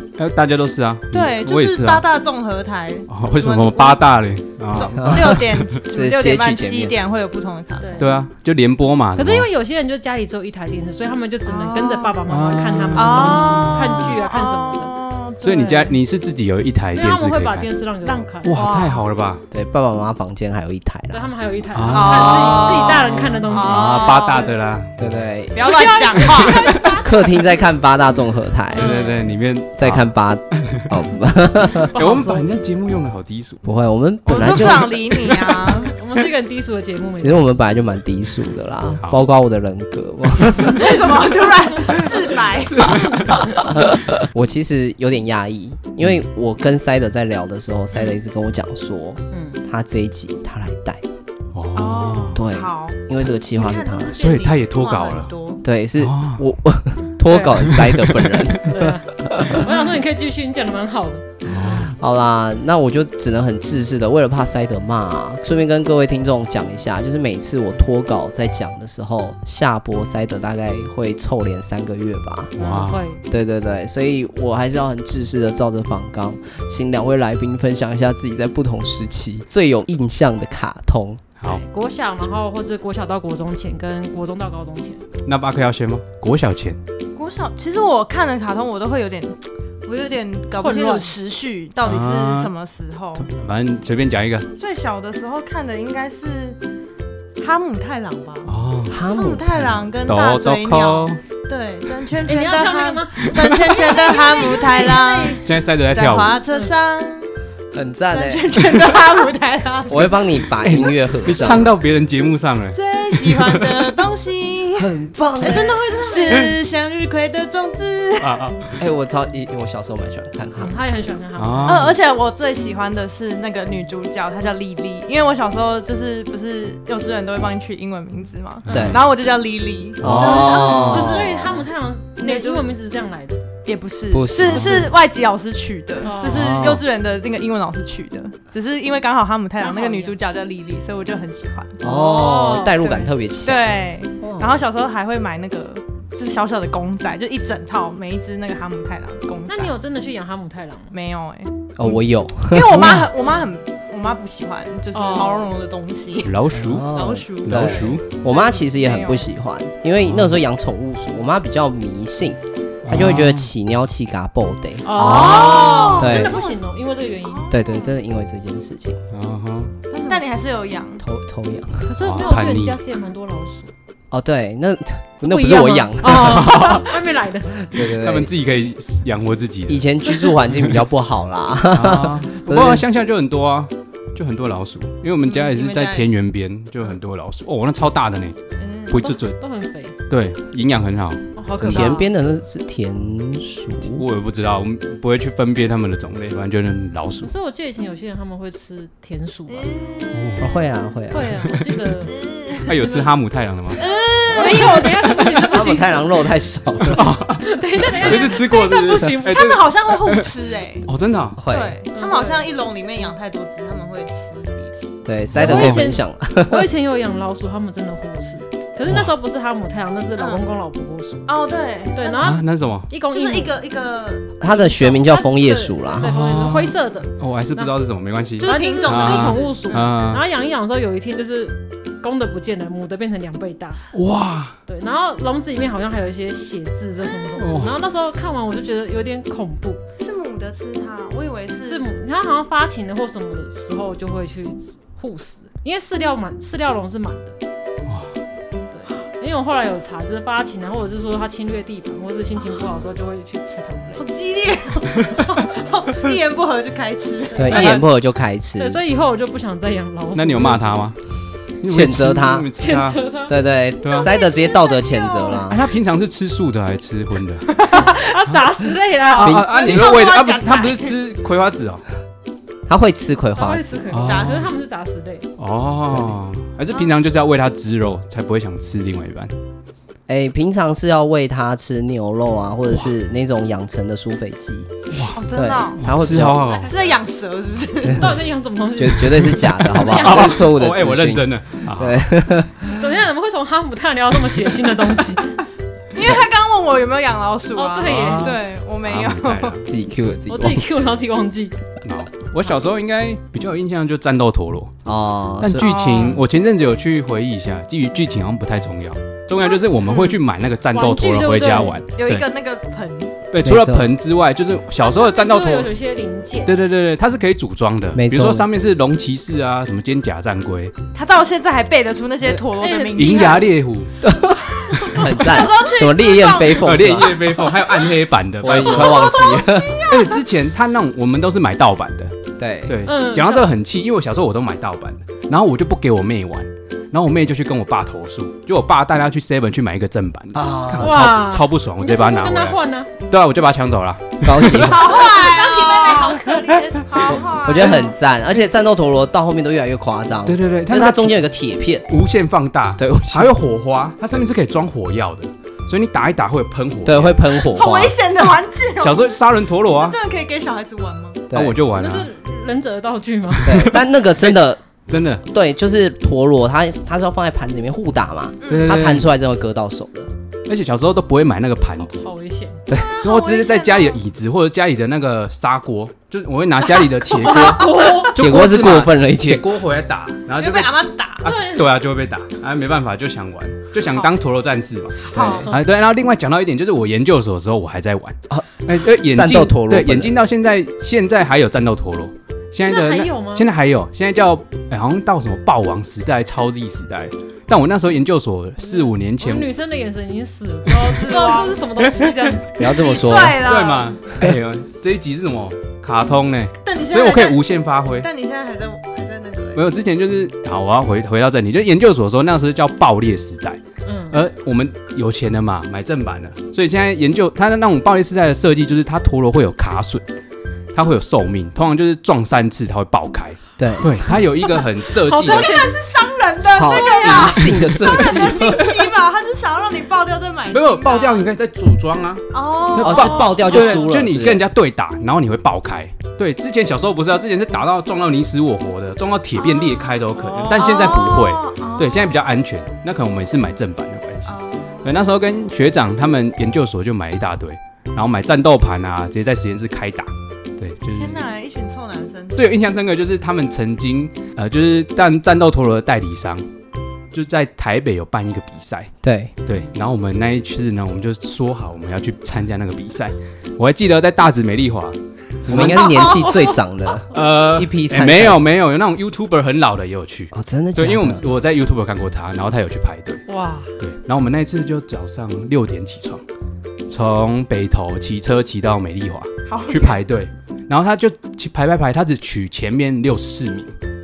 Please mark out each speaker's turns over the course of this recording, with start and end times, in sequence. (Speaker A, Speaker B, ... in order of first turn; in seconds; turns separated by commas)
Speaker A: 0.2-2.1, Speaker B: 1.1-4.1, Speaker A: 3.1-5.6, Speaker B: 4.7-8.0, Speaker C: 4.9-7.0, Speaker D: 7.8-8.3, Speaker A: 8.0-9.5, Speaker D: 9.2-14.9, Speaker B: 11.4-12.2, Speaker A: 12.3-13.8, Speaker B: 12.9-15.9, Speaker A: 15.4-17.7, Speaker D: 16.9-18.6, Speaker B: 18.0-19.0, Speaker A: 18.4-19.4, Speaker C: 19.5-21.4, Speaker D: 21.1-24.1, Speaker A: 21.7-24.9, Speaker B: 21.9-24.5, Speaker C: 25.0-25.7, Speaker B: 25.5-27.0, Speaker D: 25.6-27.3, Speaker C: 27.0-28.9, Speaker D: 28.8-29.3, Speaker A: 28.8-30.1, Speaker C: 29.8-31.9, Speaker D: 31.9-32.5, Speaker A: 31.9-33.6, Speaker C: 33.6-35.1, Speaker B: 34.2-35.9, Speaker D: 35.8-37.5, Speaker C: 37.2-41.1, Speaker B: 40.7-43.1, Speaker A: 42.6-44.0, Speaker C: 43.5-51.0, Speaker D: 49.3-49.6, Speaker A: 51.5-52.4, Speaker B: 51.8-55.6, Speaker C: 52.3-54.2, Speaker A: 54.1-55.3, Speaker C: 55.6-59.7, Speaker A: 56.0-56.4, Speaker D: 57.2-57.6, Speaker A: 57.6-58.7, Speaker D: 58.7-61.2, Speaker A: 61.5-61.9, Speaker C: 61.5-72.5, Speaker D: 72.5-73.2, Speaker A: 72.6-73.0, Speaker C: 73.3-81.2, Speaker D: 81.4-85.0, Speaker A: 85.2-86.8, Speaker B: 87.1-93.3, Speaker D: 90.6-91.1, Speaker A: 91.8-92.5, Speaker A: 93.2-94.5, Speaker B: 94.5-96.6, Speaker B: 97.4-107.3, Speaker A: 98.5-99.0, Speaker C: 98.9-99.9, Speaker A: 100.1-101.2, Speaker D: 102.3-105.4, Speaker A: 103.2-103.9, Speaker A: 105.4-106.3, Speaker C: 107.7-108.6, Speaker B: 108.1-110.2, Speaker C: 109.9-111.7, Speaker A: 110.6-114.0, Speaker B: 112.7-118.5, Speaker C: 114.8-116.2, Speaker A: 118.2-118.8, Speaker C: 118.8-120.8, Speaker D: 120.6-121.9, Speaker A: 121.4-122.0, Speaker B: 121.7-131.6, Speaker D: 128.7-128.9, Speaker C: 128.7-129.0, Speaker A: 128.7-129.0, Speaker C: 130.0-131.6, Speaker D: 130.0-133.4, Speaker A: 130.6-131.0, Speaker B: 132.2-132.7, Speaker B: 133.7-141.9, Speaker C: 134.1-134.9, Speaker D: 136.0-136.4, Speaker C: 136.1-136.8, Speaker D: 139.6-140.2, Speaker C: 141.8-144.6, Speaker D: 141.8-143.1, Speaker B: 143.4-149.7, Speaker D: 149.5-150.9, Speaker B: 150.9-156.4, Speaker C: 151.8-153.1, Speaker D: 154.9-155.5, Speaker A: 156.2-156.9, Speaker C: 156.5-164.9, Speaker B: 156.9-159.2, Speaker A: 157.4-158.0, Speaker A: 160.0-160.4, Speaker A: 162.8-163.5, Speaker D: 164.8-167.5, Speaker B: 164.9-166.6, Speaker A: 165.0-165.9, Speaker C: 166.0-166.4, Speaker B: 167.2-167.9, Speaker C: 167.5-169.0, Speaker A: 169.1-169.7, Speaker D: 169.9-170.2, Speaker B: 169.9-171.0, Speaker C: 171.0-171.9, Speaker D: 171.9-173.7, Speaker A: 172.0-172.8, Speaker C: 174.1-176.6, Speaker D: 175.2-177.5, Speaker A: 176.1-176.9, Speaker C: 177.7-178.3, Speaker A: 177.7-179.9, Speaker C: 179.7-182.8, Speaker A: 181.7-188.4, Speaker B: 185.2-186.2, Speaker B: 188.6-189.0, Speaker A: 188.9-189.4, Speaker D: 188.9-189.9, Speaker A: 190.1-191.9, Speaker B: 191.4-192.0, Speaker C: 191.6-194.0, Speaker D: 191.6-192.0, Speaker A: 193.9-197.3, Speaker D: 197.2-199.7, Speaker B: 199.5-200.5, Speaker A: 200.1-200.5, Speaker C: 200.4-201.4, Speaker D: 201.1-202.1, Speaker B: 202.0-203.0, Speaker A: 202.7-203.8, Speaker B: 203.7-204.9, Speaker D: 203.8-206.0, Speaker A: 204.9-205.3, Speaker C: 205.5-207.2, Speaker A: 206.9-207.4, Speaker D: 207.4-209.5, Speaker B: 207.8-208.4, Speaker A: 208.0-210.3, Speaker B: 209.2-210.9, Speaker A: 210.8-211.4, Speaker C: 211.3-211.8, Speaker B: 211.4-214.7, Speaker D: 211.9-212.5, Speaker C: 215.0-216.7, Speaker A: 215.3-215.8, Speaker D: 215.4-221.3, Speaker A: 218.9-219.1, Speaker B: 220.2-220.4, Speaker B: 221.3-222.3, Speaker D: 221.9-223.5, Speaker A: 222.2-222.9, Speaker B: 223.1-224.9, Speaker C: 224.4-226.1, Speaker D: 224.5-227.7, Speaker A: 226.0-230.2, Speaker B: 228.4-229.9, Speaker D: 228.4-233.8, Speaker A: 233.9-234.6, Speaker D: 234.7-239.8, Speaker A: 237.4-237.8, Speaker B: 240.0-241.8, Speaker D: 241.7-247.4, Speaker D: 248.7-254.1, Speaker B: 253.9-257.7, Speaker D: 257.3-257.9, Speaker C: 257.3-258.8, Speaker D: 258.6-260.8, Speaker A: 260.1-261.0, Speaker A: 261.6-263.0, Speaker C: 261.7-262.5, Speaker D: 262.6-263.3, Speaker C: 263.3-265.6, Speaker A: 263.8-264.1, Speaker B: 263.9-265.4, Speaker A: 265.5-267.5, Speaker B: 267.5-268.0, Speaker D: 267.8-269.4, Speaker B: 269.1-270.9, Speaker A: 269.1-271.8, Speaker C: 269.2-269.8, Speaker C: 272.7-273.6, Speaker D: 273.4-275.3, Speaker A: 273.9-274.4, Speaker B: 274.0-274.5, Speaker A: 275.4-279.3, Speaker C: 280.1-284.7, Speaker A: 284.9-285.2, Speaker B: 285.1-285.8, Speaker C: 285.3-286.5, Speaker A: 285.8-286.7, Speaker D: 286.4-287.0, Speaker B: 286.7-288.1, Speaker D: 287.9-290.4, Speaker C: 288.8-292.6, Speaker A: 289.8-292.1, Speaker D: 292.8-295.3, Speaker B: 295.9-299.6, Speaker D: 297.5-298.3, Speaker A: 297.8-299.6, Speaker C: 299.6-300.9, Speaker D: 300.3-301.6, Speaker A: 301.8-304.7, Speaker C: 304.9-305.7, Speaker A: 305.4-312.3, Speaker B: 305.6-306.2, Speaker B: 309.4-310.2, Speaker D: 310.7-311.8, Speaker B: 311.9-313.1, Speaker A: 313.3-315.7, Speaker C: 313.4-313.9, Speaker D: 314.8-316.5, Speaker A: 316.4-320.7, Speaker C: 317.9-318.5, Speaker B: 320.9-323.5, Speaker D: 322.6-323.3, Speaker A: 322.9-323.9, Speaker C: 324.0-327.2, Speaker B: 324.8-327.5, Speaker A: 326.6-329.3, Speaker C: 328.4-329.8, Speaker B: 328.5-330.2, Speaker A: 329.9-332.1, Speaker C: 332.4-332.8, Speaker A: 332.6-344.7, Speaker D: 332.8-333.5, Speaker C: 340.3-341.2, Speaker D: 340.8-342.9, Speaker C: 344.2-345.0, Speaker B: 344.6-346.3, Speaker D: 344.8-347.1, Speaker B: 346.8-347.9, Speaker C: 347.1-351.9, Speaker A: 350.2-351.2, Speaker A: 351.9-357.2, Speaker C: 352.8-353.4, Speaker C: 356.8-358.0, Speaker B: 357.4-361.2, Speaker A: 358.8-360.0, Speaker C: 361.3-361.6, Speaker A: 361.3-362.1, Speaker D: 361.8-363.7, Speaker C: 363.4-364.6, Speaker A: 364.9-365.2, Speaker C: 365.2-370.1, Speaker B: 368.4-368.8, Speaker A: 368.5-369.1, Speaker A: 370.5-372.0, Speaker D: 372.0-372.6, Speaker B: 372.7-374.0, Speaker A: 373.0-399.5, Speaker B: 376.8-377.9, Speaker D: 377.2-378.1, Speaker C: 378.1-379.5, Speaker B: 380.4-381.3, Speaker D: 381.2-381.7, Speaker B: 385.0-385.5, Speaker C: 385.1-385.4, Speaker C: 388.3-390.1, Speaker D: 392.7-393.5, Speaker D: 398.6-402.5, Speaker B: 400.8-401.6, Speaker C: 402.6-403.4, Speaker B: 402.6-403.9, Speaker A: 403.4-408.1, Speaker B: 406.6-409.6, Speaker A: 409.5-420.1, Speaker D: 413.8-414.2, Speaker A: 420.7-425.6, Speaker C: 423.6-423.9, Speaker D: 425.0-425.8, Speaker B: 425.2-431.3, Speaker C: 426.5-428.6, Speaker D: 426.7-427.1, Speaker A: 427.2-428.7, Speaker A: 430.5-451.2, Speaker B: 432.3-433.8, Speaker C: 432.8-434.4, Speaker B: 439.4-442.2, Speaker D: 440.1-440.7, Speaker B: 444.2-444.9, Speaker B: 450.9-452.5, Speaker A: 452.4-456.4, Speaker A: 457.1-458.9, Speaker C: 459.0-459.3, Speaker A: 459.4-465.9, Speaker C: 465.4-468.4, Speaker D: 465.9-466.5, Speaker A: 467.1-473.2, Speaker C: 470.3-471.2, Speaker D: 473.3-473.7, Speaker A: 473.8-476.2, Speaker A: 476.9-483.7, Speaker B: 479.5-480.0